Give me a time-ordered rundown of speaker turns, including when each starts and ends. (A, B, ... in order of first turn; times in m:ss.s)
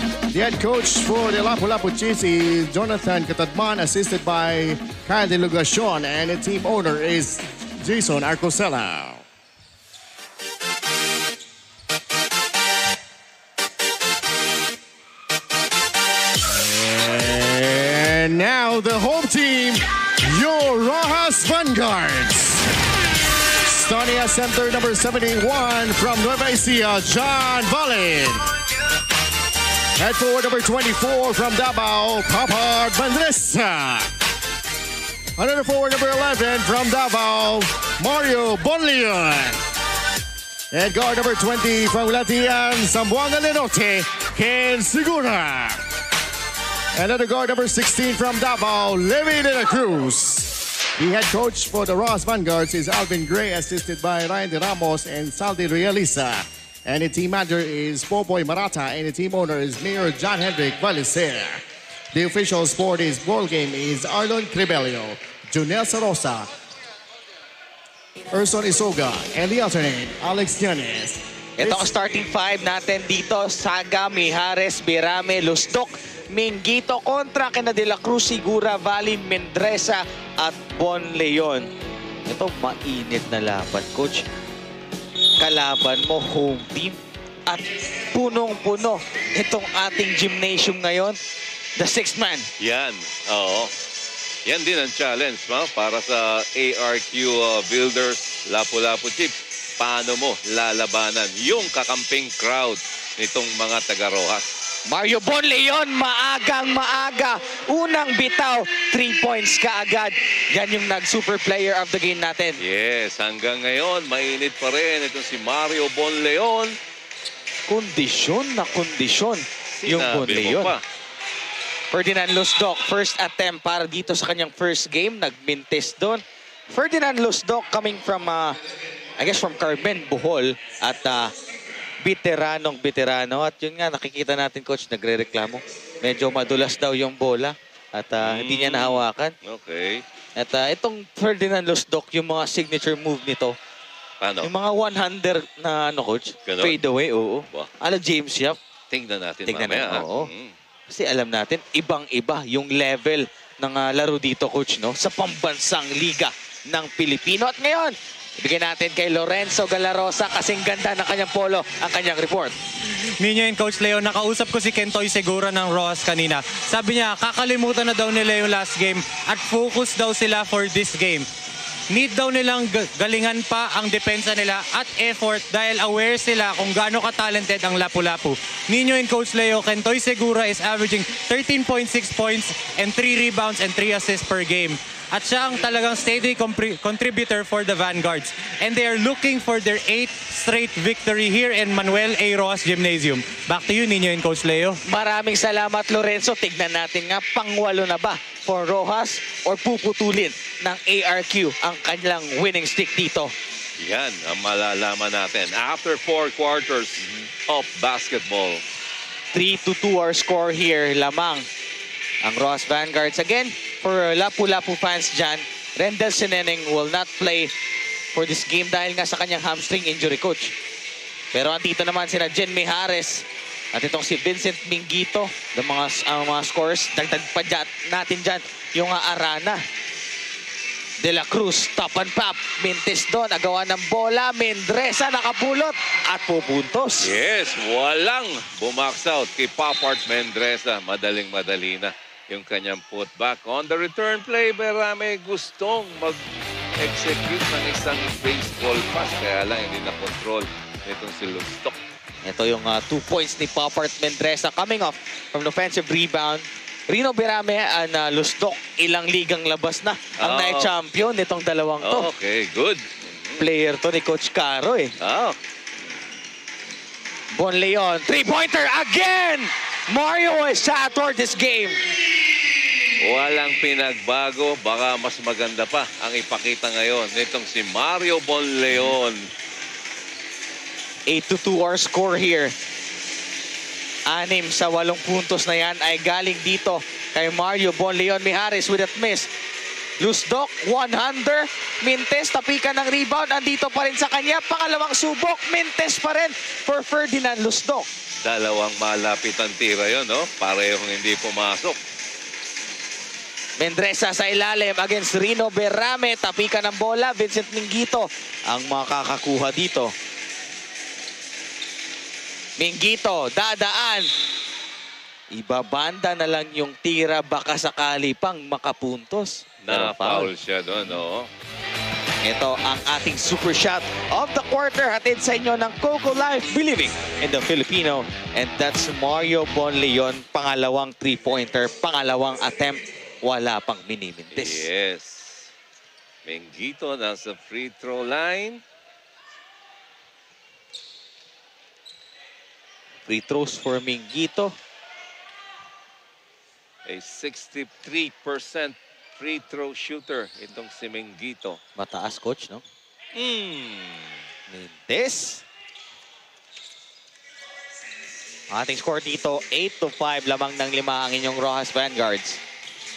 0:00.3-0:09.2 A
0:16.5-0:22.6 A
0:23.6-0:28.4 A
0:30.0-0:34.1 A
0:35.4-0:39.6 A
0:40.7-0:45.8 A
0:47.0-1:01.6 A
1:02.1-1:06.5 A
1:08.3-1:11.9 A
1:11.6-1:21.7 B
1:22.3-1:24.2 B
1:25.4-1:31.2 B
1:31.8-1:32.5 B
1:32.6-1:33.7 C
1:34.4-1:44.5 C
1:44.9-1:52.6 B
1:52.6-1:56.7 C
1:57.7-2:00.7 B
1:59.8-2:00.8 C
2:01.9-2:08.6 B
2:09.2-2:11.3 B
2:12.0-2:19.3 B
2:18.2-2:20.0 C
2:20.4-2:23.5 B
2:24.2-2:24.5 C
2:24.4-2:28.6 B
2:26.4-2:26.8 C
2:28.9-2:30.5 C
2:29.4-2:30.3 B
2:30.9-2:42.5 B
2:43.2-2:51.3 D
2:51.9-3:14.8 D
3:14.8-3:23.3 B
3:23.8-3:28.6 C
3:27.0-3:27.3 B
3:29.3-3:31.4 B
3:32.2-3:37.5 B
3:38.1-3:40.5 B
3:41.3-3:49.6 B
3:51.0-3:57.1 B
3:57.0-4:06.2 C
4:06.8-4:11.8 C
4:12.2-4:22.1 B
4:20.2-4:20.7 C
4:21.8-4:23.4 C
4:23.4-4:24.9 B
4:25.0-4:25.4 C
4:27.3-4:31.8 B
4:33.0-4:39.2 C
4:41.1-4:42.5 B
4:44.1-4:49.3 B
4:50.0-4:57.9 B
4:58.2-5:01.8 C
5:03.6-5:09.9 B
5:12.6-5:14.1 B
5:15.3-5:20.3 B
5:19.6-5:21.3 C
5:22.2-5:34.6 B
5:34.3-5:35.5 C
5:36.2-5:38.6 C
5:43.0-5:44.5 B
5:46.8-5:51.6 C
5:51.8-5:52.6 B
5:53.1-5:54.2 C
5:54.5-5:55.4 B
5:58.5-6:02.4 B